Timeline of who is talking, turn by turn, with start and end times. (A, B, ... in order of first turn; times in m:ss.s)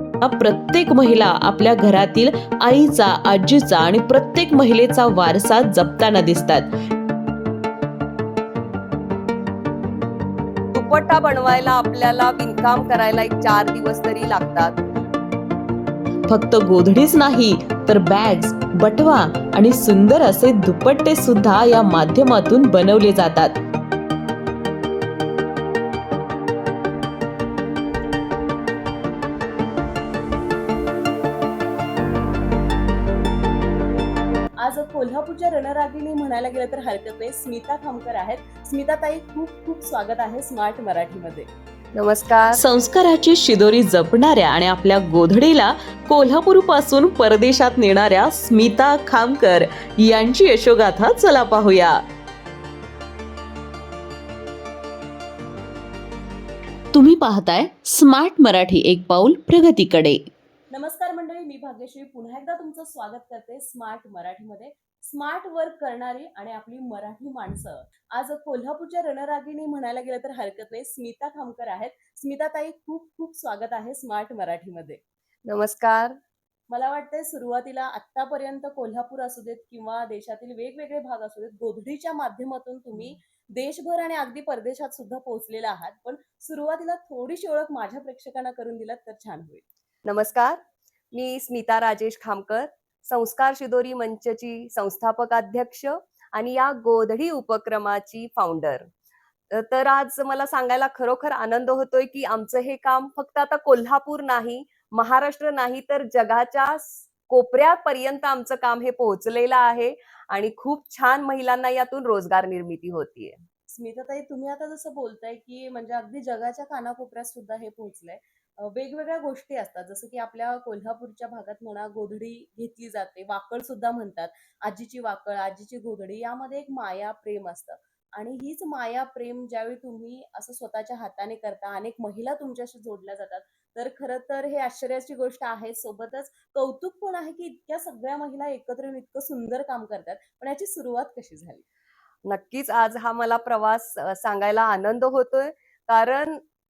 0:00.2-0:06.7 A
0:10.7-0:14.8 B
0:16.3-0:23.6 A
0:34.6-0:41.5 C
0:41.9-0:42.6 B
0:42.5-0:52.0 A
0:56.9-1:00.3 A
1:00.7-1:15.0 C
1:15.4-1:16.2 B
1:16.7-1:29.6 C
1:30.0-1:30.6 B
1:31.1-1:38.9 B
1:39.5-1:53.4 B
1:53.7-2:21.6 C
2:22.2-2:26.4 B